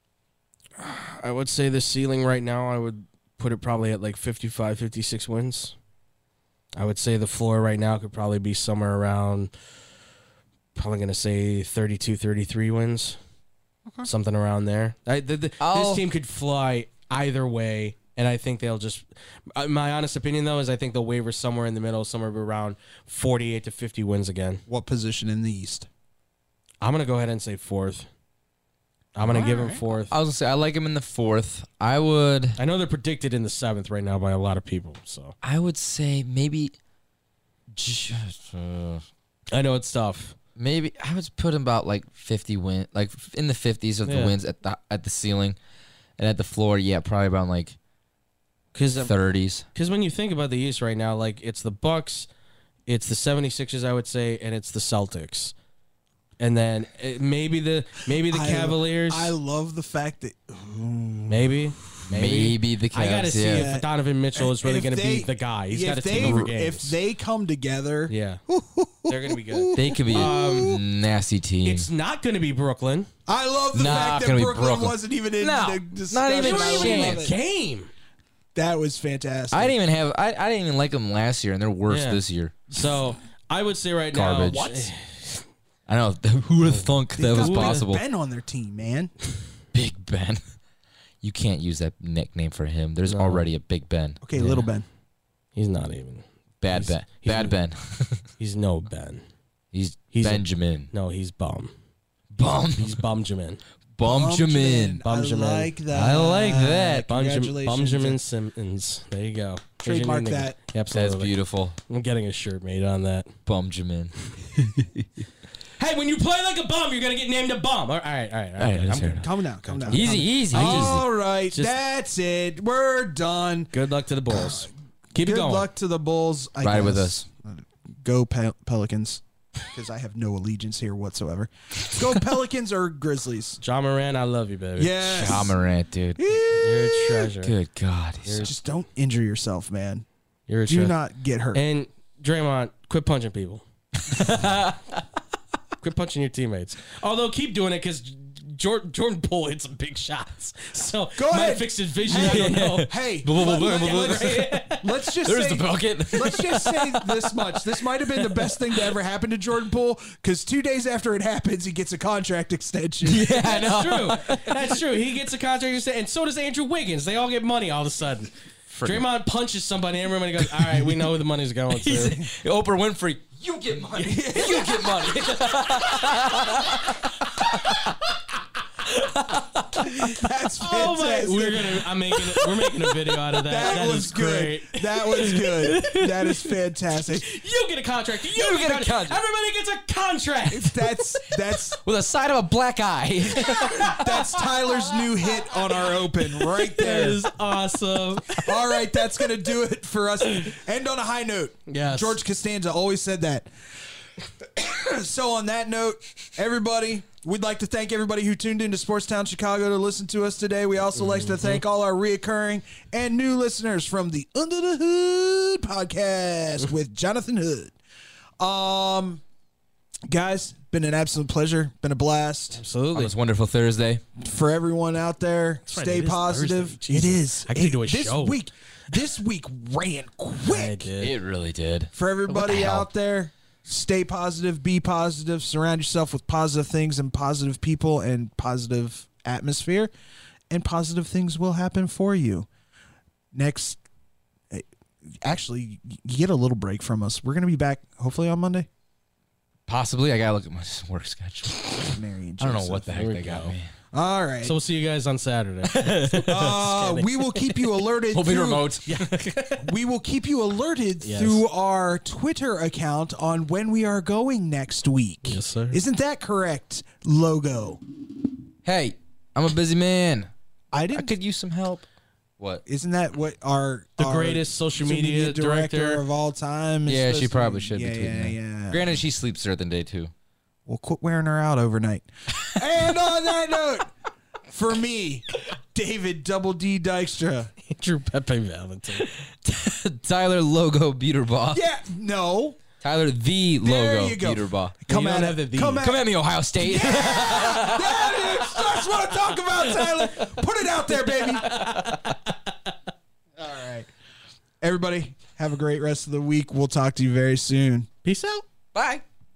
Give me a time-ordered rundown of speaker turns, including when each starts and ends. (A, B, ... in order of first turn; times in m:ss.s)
0:00.8-0:05.7 A
0:06.7-0:09.5 A
0:10.7-0:13.2 A
0:14.0-0:24.6 A
0:15.6-0:16.0 B
0:24.7-0:25.9 C
0:26.8-0:28.1 A
0:29.2-0:30.1 A
0:29.3-0:29.8 C
0:30.1-0:32.6 B
0:32.6-0:35.3 A
0:35.4-0:36.7 B
0:37.7-0:39.0 B
0:39.5-0:40.4 A
0:40.6-0:45.6 B
0:44.0-0:44.3 A
0:46.2-0:47.8 B
0:48.7-0:49.1 A
0:49.0-0:49.7 B
0:49.7-0:52.3 A
0:52.9-0:55.5 A
0:56.4-0:59.3 A
0:58.3-1:01.6 C
1:01.3-1:07.0 A
1:02.1-1:03.7 B
1:03.4-1:10.8 C
1:06.1-1:06.5 B
1:08.1-1:08.4 A
1:09.0-1:10.7 A
1:09.7-1:11.8 B
1:11.6-1:13.1 A
1:13.3-1:17.4 C
1:13.7-1:17.3 B
1:13.8-1:14.2 A
1:16.3-1:17.9 A
1:18.5-1:19.8 C
1:19.5-1:22.6 B
1:21.9-1:25.4 A
1:24.1-1:24.8 B
1:25.9-1:28.0 B
1:26.7-1:27.8 A
1:27.2-1:29.1 C
1:29.7-1:30.4 B
1:31.2-1:34.6 B
1:33.1-1:33.4 A
1:34.2-1:34.8 C
1:35.6-1:37.6 A
1:36.6-1:38.2 B
1:38.4-1:39.2 A
1:39.7-1:40.9 B
1:40.1-1:41.7 A
1:42.3-1:43.0 B
1:42.8-1:43.6 A
1:44.0-1:45.0 B
1:44.0-1:48.2 C
1:45.0-1:45.7 A
1:45.9-1:47.1 B
1:47.1-1:51.3 A
1:49.8-1:50.6 C
1:50.9-1:51.8 B
1:51.9-1:53.3 A
1:53.4-1:55.0 B
1:55.8-2:01.8 A
1:58.6-1:59.2 B
1:59.1-2:03.7 C
1:59.9-2:01.0 B
2:03.7-2:05.7 A
2:04.3-2:13.6 C
2:06.6-2:07.2 B
2:13.6-2:15.5 A
2:14.8-2:15.6 C
2:15.0-2:16.3 B
2:16.2-2:17.3 C
2:16.5-2:17.5 A
2:17.4-2:18.5 B
2:18.2-2:18.5 A
2:18.4-2:20.0 C
2:20.5-2:20.9 A
2:20.7-2:21.6 C
2:21.5-2:23.6 A
2:24.0-2:25.0 B
2:25.8-2:35.1 A
2:31.1-2:43.3 C
2:32.1-2:34.6 B
2:35.2-2:37.3 B
2:43.0-2:44.7 B
2:43.3-2:48.3 A
2:48.7-2:49.1 B
2:48.8-2:52.2 A
2:50.4-2:51.1 B
2:51.7-2:57.9 B
2:53.9-2:54.5 A
2:54.0-2:55.3 C
2:55.5-2:56.2 A
2:58.9-2:59.6 B
2:59.9-3:01.9 C
3:00.6-3:06.0 A
3:03.5-3:07.3 C
3:07.1-3:10.9 A
3:08.3-3:09.2 B
3:10.5-3:11.8 C
3:11.7-3:14.1 B
3:13.4-3:15.0 A
3:13.5-3:17.2 C
3:16.5-3:19.0 A
3:16.8-3:17.1 B
3:18.4-3:23.5 C
3:21.7-3:22.2 A
3:24.4-3:37.7 C
3:31.0-3:31.6 A
3:38.4-3:39.2 C
3:40.1-3:42.6 C
3:42.5-3:43.1 A
3:42.9-3:44.0 B
3:44.2-3:50.8 C
3:45.7-3:48.4 A
3:50.4-3:51.1 A
3:51.0-3:52.9 B
3:51.9-3:59.9 C
4:00.5-4:02.5 C
4:03.3-4:03.8 C
4:05.2-4:08.7 C
4:09.7-4:13.7 B
4:11.8-4:13.0 C
4:12.9-4:13.5 A
4:13.9-4:14.6 C
4:14.4-4:17.6 A
4:15.7-4:16.4 B
4:16.2-4:18.8 C
4:18.1-4:19.1 B
4:18.8-4:19.7 A
4:19.6-4:27.8 C
4:21.0-4:21.4 A
4:25.2-4:25.8 A
4:28.6-4:30.3 B
4:30.7-4:31.1 C
4:30.9-4:31.8 B
4:32.6-4:39.0 C
4:34.0-4:36.0 A
4:36.8-4:40.1 B
4:40.6-4:43.9 C
4:44.5-4:47.5 C
4:47.7-4:49.1 A
4:49.0-4:51.6 B
4:51.5-4:52.6 C
4:52.8-4:54.7 B
4:53.6-5:01.6 C
4:54.9-4:55.9 A
4:55.8-4:58.8 B
4:59.8-5:00.3 B
5:01.2-5:02.2 A
5:01.5-5:02.0 B
5:03.4-5:03.9 C
5:04.6-5:07.9 C
5:08.0-5:08.4 A
5:08.7-5:09.0 B